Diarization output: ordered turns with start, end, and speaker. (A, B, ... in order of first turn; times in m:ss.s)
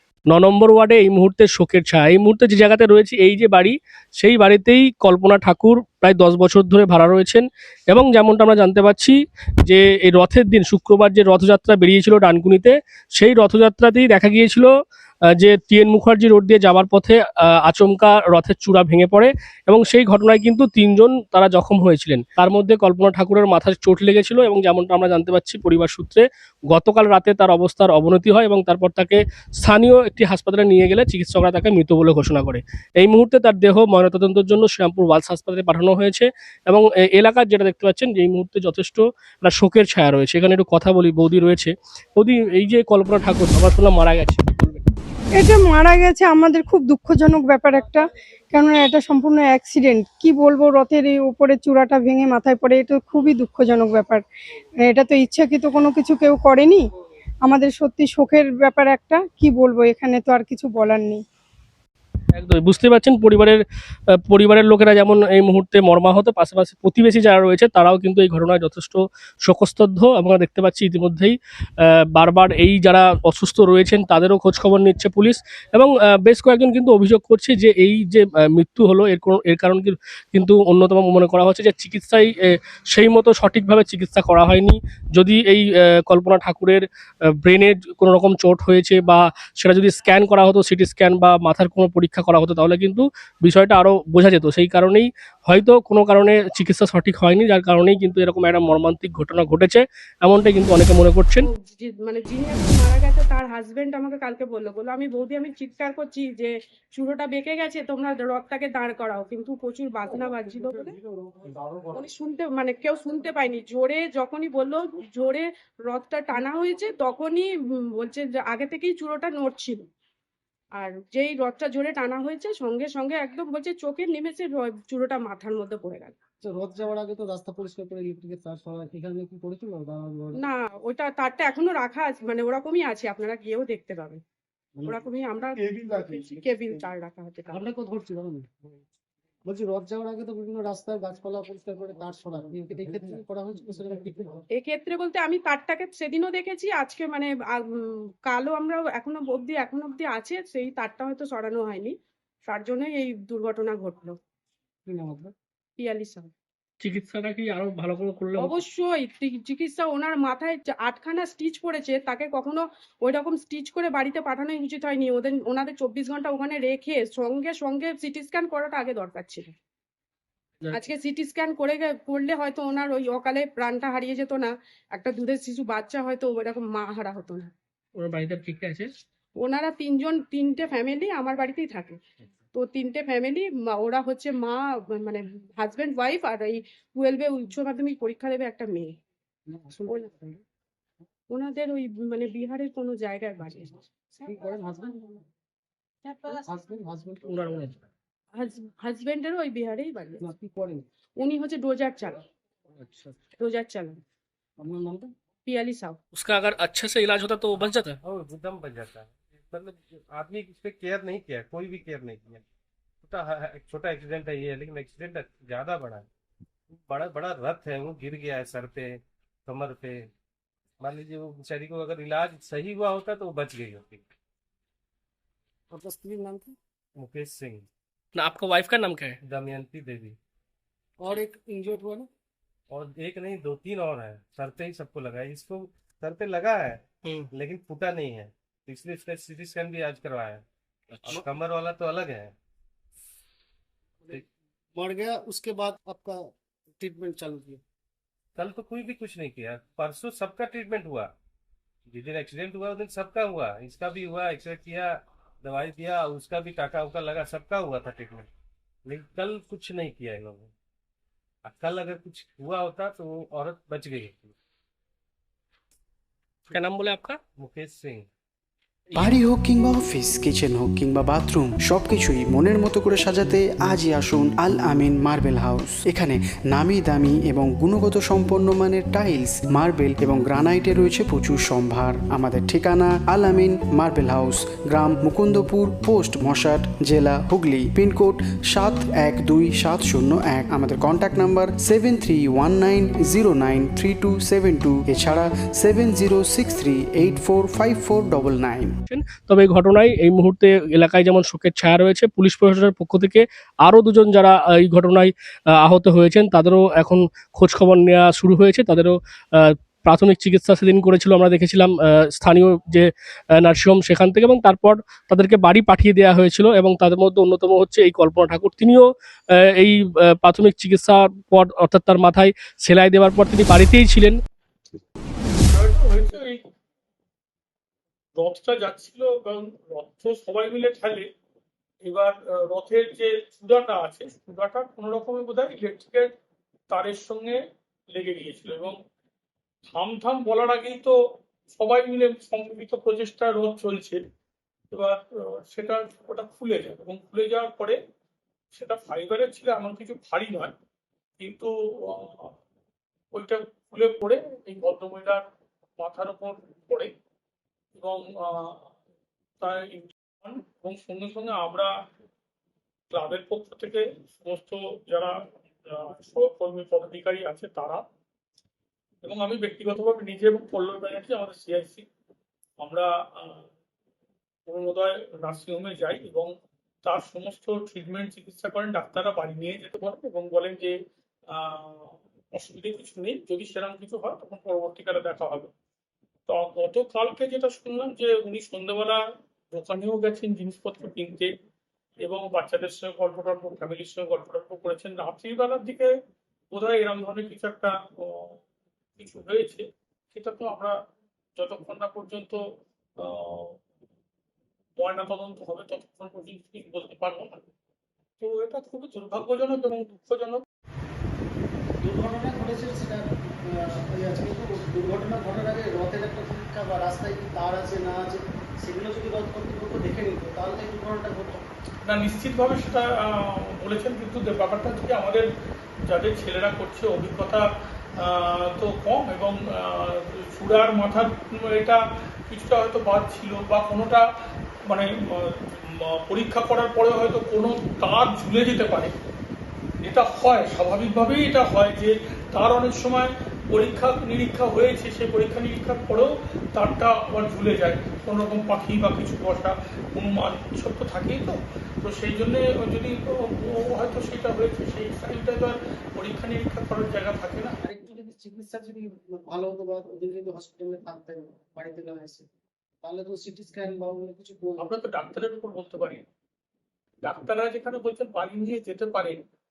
0:00.3-0:14.7 A
0:15.4-0:44.8 A
0:45.3-0:54.2 B
0:54.8-0:56.8 B
0:57.4-1:01.2 B
1:02.3-1:03.6 A
1:04.3-1:22.4 A
1:22.9-1:26.8 A
1:27.4-1:41.5 A
1:41.4-1:51.0 C
1:50.1-1:52.1 D
1:51.9-1:59.8 C
2:00.8-2:06.2 C
2:06.4-2:10.4 D
2:10.4-2:14.2 C
2:14.8-2:15.0 D
2:14.8-2:17.7 C
2:15.6-2:16.8 D
2:17.5-2:18.5 D
2:19.5-2:24.4 D
2:24.6-2:27.6 C
2:28.2-2:31.9 C
2:32.5-2:34.2 C
2:34.9-2:35.3 D
2:35.8-2:36.3 C
2:36.8-2:38.6 A
2:38.4-2:49.5 C
2:50.7-2:57.5 C
2:58.0-2:58.9 A
2:59.4-3:02.0 C
3:02.5-3:08.9 C
3:09.5-3:10.4 D
3:11.3-3:13.7 C
3:14.2-3:15.2 D
3:16.2-3:17.7 D
3:17.3-3:17.7 A
3:18.4-3:20.3 C
3:20.2-3:20.8 D
3:21.2-3:22.2 C
3:22.8-3:23.2 D
3:23.4-3:24.0 C
3:24.6-3:25.1 D
3:25.5-3:26.0 C
3:26.1-3:28.0 A
3:28.0-3:32.4 E
3:33.0-3:36.1 E
3:36.8-3:40.1 E
3:40.8-3:44.0 E
3:45.7-3:46.6 D
3:47.0-3:47.7 E
3:48.2-3:49.2 A
3:49.2-3:50.2 E
3:51.0-3:52.1 D
3:52.7-4:00.4 E
4:01.0-4:02.3 E
4:04.0-4:07.6 D
4:08.4-4:11.1 E
4:11.9-4:18.3 E
4:18.9-4:20.5 E
4:21.4-4:24.4 E
4:26.5-4:27.2 A
4:27.4-4:28.1 E
4:29.0-4:58.7 F
4:58.9-5:18.9 A
5:19.6-5:24.2 A
5:25.5-5:26.4 G
5:28.2-5:31.1 G
5:31.9-5:36.1 G
5:36.7-5:37.4 G
5:37.9-5:38.8 G
5:39.7-5:41.0 G
5:41.5-5:44.0 G
5:44.7-5:47.8 G
5:48.5-5:50.5 G
5:51.2-5:52.3 G
5:53.1-5:55.2 G
5:55.8-5:56.9 G
5:57.8-5:58.6 G
5:59.4-6:01.7 G
6:02.9-6:05.1 G
6:05.7-6:07.8 G
6:09.0-6:11.9 G
6:12.6-6:13.4 G
6:14.5-6:16.3 G
6:16.8-6:20.7 G
6:21.3-6:25.5 G
6:26.3-6:29.0 G
6:29.5-6:31.3 G
6:32.0-6:35.9 G
6:36.5-6:38.4 G
6:39.0-6:39.6 G
6:40.1-6:40.7 G
6:41.4-6:42.4 G
6:43.0-6:43.6 G
6:44.8-6:47.4 G
6:48.2-6:50.4 G
6:51.8-7:01.4 D
7:01.9-7:05.3 G
7:05.9-7:07.4 G
7:08.0-7:14.0 G
7:14.7-7:18.9 G
7:19.8-7:37.5 G
7:37.6-7:42.3 D
7:42.8-7:44.8 D
7:44.6-7:46.0 G
7:47.0-7:49.2 G